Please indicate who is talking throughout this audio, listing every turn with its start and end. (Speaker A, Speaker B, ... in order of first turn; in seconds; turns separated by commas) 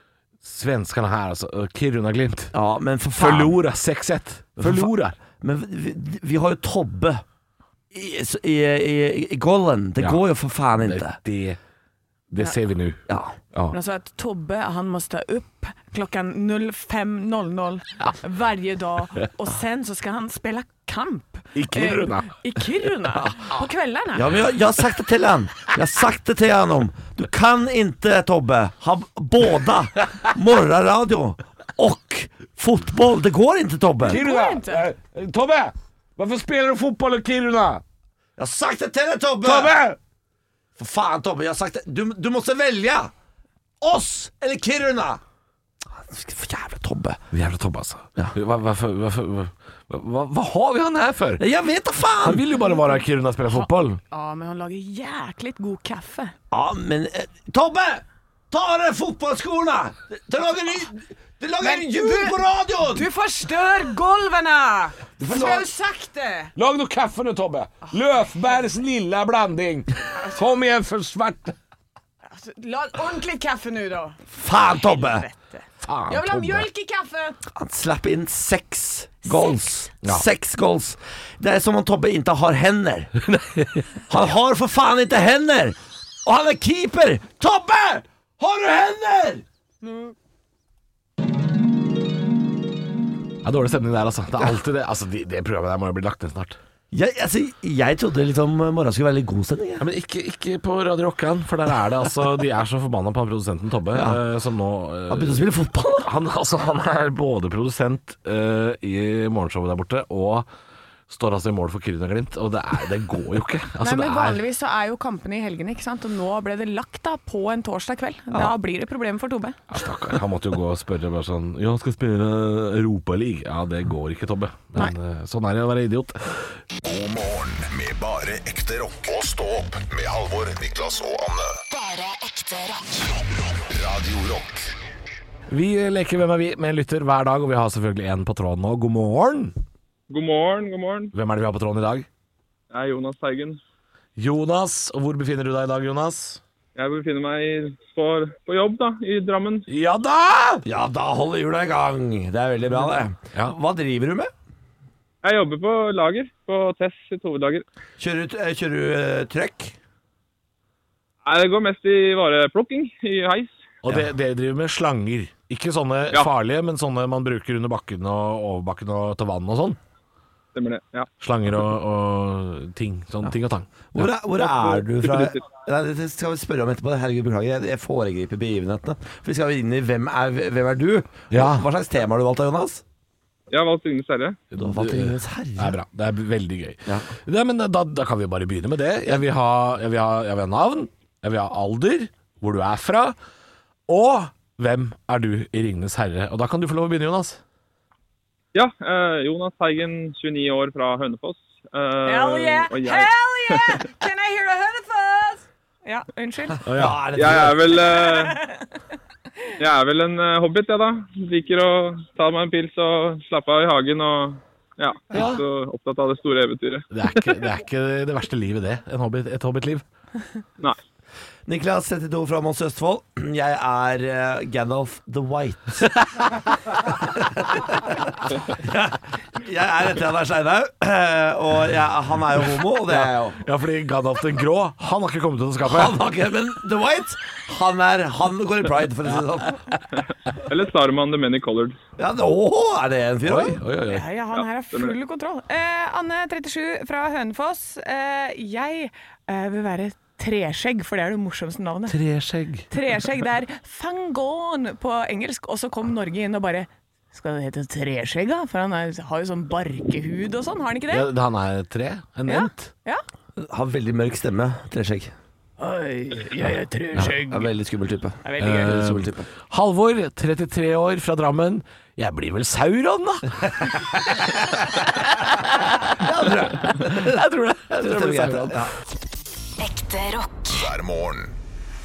Speaker A: 0.4-2.5, Speaker B: 2.5-3.6, Speaker A: 3.2-5.2, Speaker B: 4.6-7.2, Speaker B: 7.9-11.2, Speaker A: 10.8-11.6, Speaker A: 12.3-13.0, Speaker B: 13.1-13.4, Speaker C: 13.7-24.3, Speaker A: 21.5-22.3, Speaker B: 24.1-34.2, Speaker C: 34.0-34.9, Speaker A: 34.0-37.8, Speaker B: 38.4-39.9, Speaker A: 39.4-40.0, Speaker B: 40.8-43.1, Speaker B: 43.8-45.2, Speaker B: 45.9-47.2, Speaker A: 47.3-51.4, Speaker B: 51.4-52.4, Speaker A: 52.2-54.0, Speaker C: 53.5-56.3, Speaker B: 56.5-63.0, Speaker C: 61.6-62.4, Speaker C: 62.9-66.5, Speaker A: 65.2-65.7, Speaker A: 66.5-71.5, Speaker C: 67.8-68.6, Speaker C: 72.3-77.4, Speaker B: 74.3-75.2, Speaker A: 75.8-76.7, Speaker B: 77.5-83.1, Speaker C: 79.2-79.6, Speaker A: 83.3-83.8, Speaker B: 84.1-89.4, Speaker C: 89.8-90.1, Speaker A: 93.4-96.6, Speaker B: 96.9-99.9, Speaker A: 99.8-105.4, Speaker B: 103.9-104.2, Speaker B: 105.1-106.1, Speaker A: 106.0-110.5, Speaker A: 111.1-114.4, Speaker C: 113.8-119.6, Speaker A: 119.7-126.5, Speaker D: 126.8-131.6, Speaker E: 131.7-133.2, Speaker D: 133.7-134.7, Speaker A: 135.5-139.6, Speaker F: 140.1-141.1, Speaker A: 141.1-142.1, Speaker F: 142.7-143.6, Speaker A: 144.2-146.4, Speaker F: 146.8-149.7, Speaker A: 149.7-150.6, Speaker B: 150.7-154.3, Speaker F: 155.2-157.6, Speaker B: 158.0-159.7, Speaker F: 161.2-163.6, Speaker A: 163.8-169.8, Speaker F: 170.5-171.1, Speaker A: 171.2-174.1, Speaker B: 173.9-182.8, Speaker F: 174.4-175.4, Speaker A: 181.3-181.6, Speaker F: 183.5-184.4, Speaker A: 184.5-193.2, Speaker B: 184.6-185.8, Speaker A: 193.9-197.4, Speaker F: 198.5-203.8, Speaker C: 202.0-206.6, Speaker A: 206.6-207.4, Speaker B: 206.7-207.8, Speaker F: 207.1-208.3, Speaker C: 207.9-208.8, Speaker F: 209.6-217.3, Speaker A: 215.1-215.4, Speaker A: 216.9-219.8, Speaker B: 221.4-226.1, Speaker B: 226.7-233.4, Speaker A: 232.9-236.0, Speaker B: 235.6-239.6, Speaker F: 240.4-241.8, Speaker B: 242.0-243.6, Speaker A: 243.2-244.0, Speaker C: 243.9-252.0, Speaker F: 244.3-244.9, Speaker A: 251.9-252.7, Speaker C: 252.7-261.1, Speaker A: 260.9-262.7, Speaker C: 262.3-263.0, Speaker B: 263.4-265.1, Speaker C: 265.6-267.5, Speaker B: 267.1-269.2, Speaker C: 268.2-268.8, Speaker A: 268.4-274.3, Speaker B: 275.9-277.2, Speaker A: 276.5-278.7, Speaker B: 277.8-278.7, Speaker E: 279.6-280.7, Speaker D: 280.5-281.3